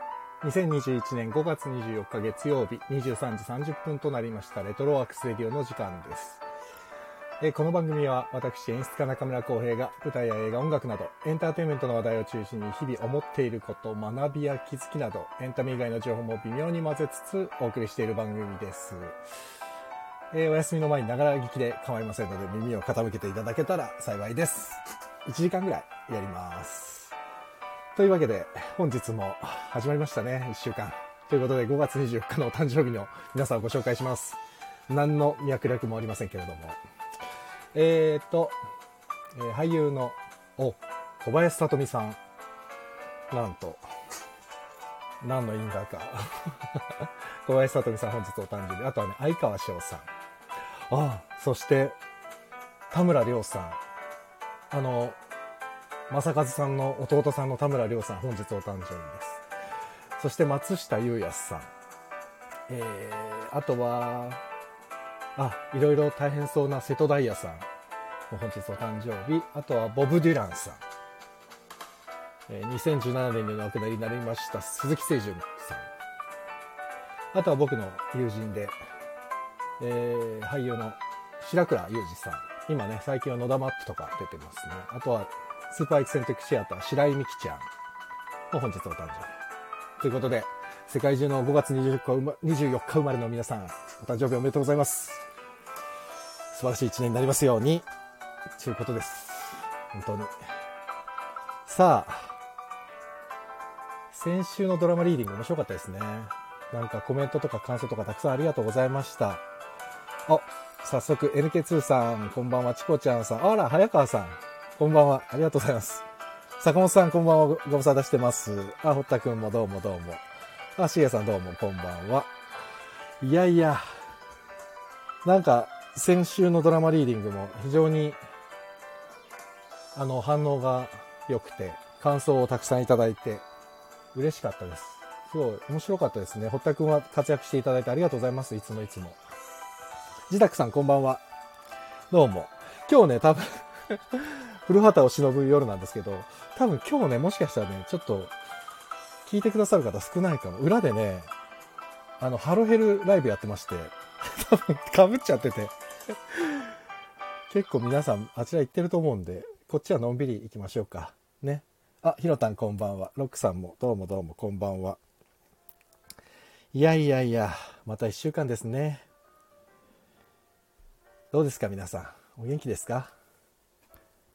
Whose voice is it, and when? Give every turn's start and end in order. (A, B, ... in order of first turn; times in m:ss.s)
0:00.4-0:06.4 A
0:07.4-0:19.2 A
0:20.3-0:27.1 A
0:27.9-0:36.8 A
0:37.7-0:38.6 A
0:39.3-0:42.2 A
0:43.3-0:43.8 A
0:45.2-0:50.1 A
0:50.9-0:52.0 A
0:52.9-0:53.8 A
0:54.7-0:55.2 A
0:56.1-0:59.4 A
1:00.2-1:01.7 A
1:02.7-1:04.4 A
1:05.4-1:07.7 A
1:08.3-1:10.8 A
1:12.5-1:15.9 A
1:17.3-1:18.8 A
1:19.8-1:27.6 A
1:28.5-1:29.3 A
1:30.0-1:35.2 A
1:36.5-1:37.8 A
1:38.6-1:40.3 A
1:41.6-1:42.3 A
1:44.1-1:49.4 A
1:50.3-1:56.0 A
1:56.6-2:00.2 A
2:00.8-2:02.3 A
2:03.2-2:03.8 A
2:05.2-2:08.2 A
2:09.9-2:13.4 A
2:14.1-2:19.2 A
2:20.3-2:21.2 A
2:22.1-2:28.3 A
2:29.2-2:31.3 A
2:32.2-2:35.7 A
2:36.3-2:36.7 A
2:37.5-2:45.0 A
2:46.7-2:49.0 A
2:51.3-2:53.1 A